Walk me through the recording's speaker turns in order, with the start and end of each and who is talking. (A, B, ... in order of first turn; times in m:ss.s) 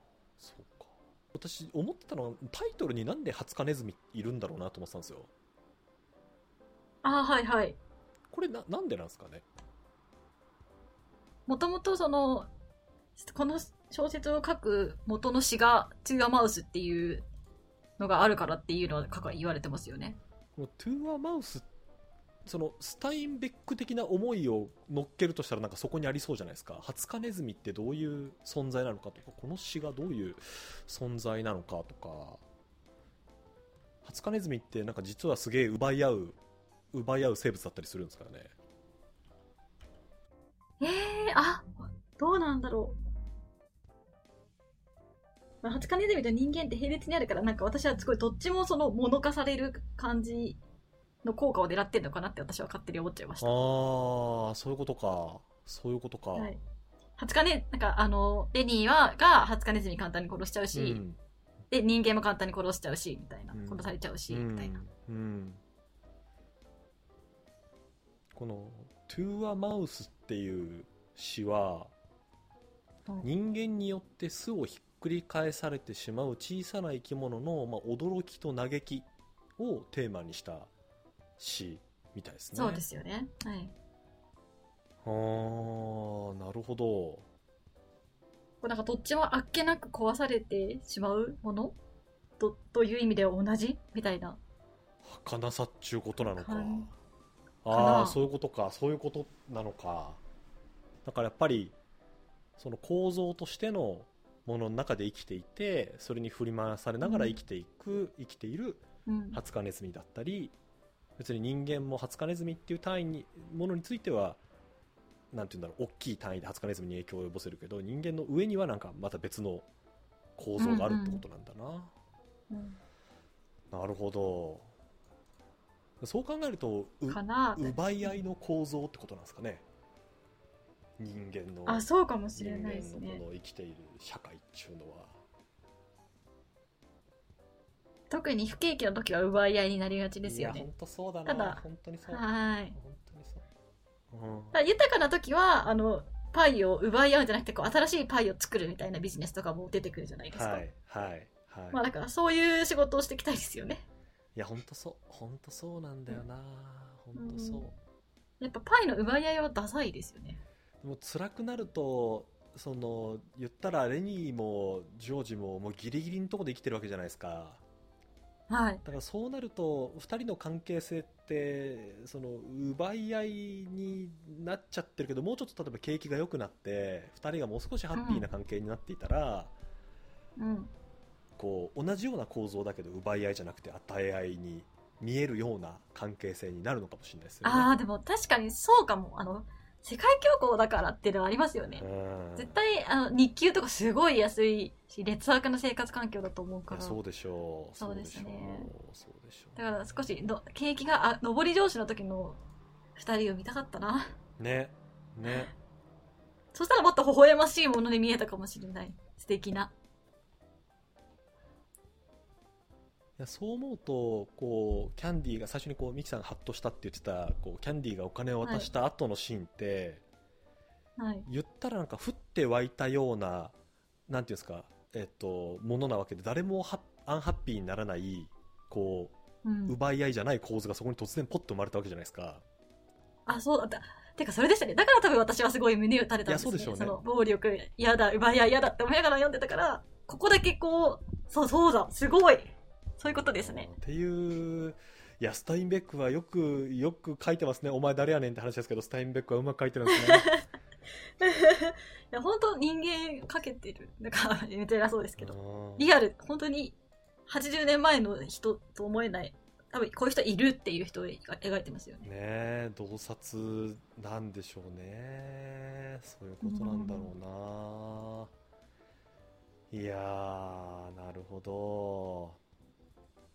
0:00.4-0:05.3 A
0:07.0-0:07.8 B
0:08.3-0:09.4 A
0:11.5-0:12.5 B
0:13.2-0:17.2 B
0:18.0-0:20.2 B
0:20.6-0:21.7 A
0:22.4-0:32.4 A
0:34.0-0:36.4 A
0:36.9-0:38.5 A
0:40.8-0:43.0 B
0:45.6-0:50.6 B
0:51.2-0:53.6 B
0:53.4-0:56.5 A
0:56.3-0:56.6 B
0:57.2-1:01.0 B
1:00.7-1:01.2 A
1:01.7-1:04.8 B
1:03.5-1:05.6 A
1:08.3-1:11.9 A
1:13.2-1:20.7 A
1:21.4-1:22.8 A
1:22.5-1:23.7 B
1:25.0-1:27.2 A
1:28.6-1:31.7 B
1:32.4-1:34.4 B
1:35.0-1:36.9 A
1:36.2-1:36.9 B
1:37.6-1:40.2 A
1:37.7-1:38.2 B
1:41.0-1:41.8 A
1:42.6-1:50.5 A
1:47.0-1:47.4 B
1:49.0-1:49.4 B
1:51.2-1:54.4 A
1:55.3-1:59.7 A
2:00.4-2:01.9 A
2:00.6-2:01.2 B
2:02.5-2:02.8 B
2:03.7-2:04.7 A
2:06.0-2:09.6 A
2:07.1-2:08.1 B
2:11.0-2:11.8 A
2:11.7-2:13.2 B
2:12.4-2:15.2 A
2:18.1-2:20.7 B
2:20.2-2:23.4 A
2:21.2-2:22.8 B
2:24.1-2:24.6 A
2:24.5-2:30.6 B
2:30.3-2:31.8 A
2:31.7-2:33.8 B
2:34.3-2:37.8 A
2:37.1-2:37.6 B
2:38.4-2:40.4 B
2:40.8-2:47.6 A
2:48.5-2:48.8 B
2:48.8-2:59.5 A
2:57.9-2:58.3 B
3:00.4-3:00.7 B
3:01.4-3:07.7 A
3:07.4-3:11.8 B
3:11.8-3:12.6 A
3:12.4-3:17.0 B
3:16.7-3:19.6 A
3:17.8-3:18.7 B
3:19.6-3:22.4 B
3:23.0-3:24.0 B
3:24.4-3:25.5 A
3:26.5-3:29.7 B
3:33.2-3:40.0 A
3:38.4-3:38.7 B
3:41.0-3:41.3 B
3:41.2-3:43.5 A
3:44.1-3:52.4 A
3:49.4-3:49.8 B
3:53.3-4:03.7 B
3:56.2-3:57.0 A
4:03.0-4:10.3 A
4:09.9-4:10.4 B
4:11.2-4:16.8 B
4:15.2-4:15.9 A
4:17.3-4:22.0 B
4:22.0-4:28.3 A
4:26.4-4:27.1 B
4:29.7-4:32.4 A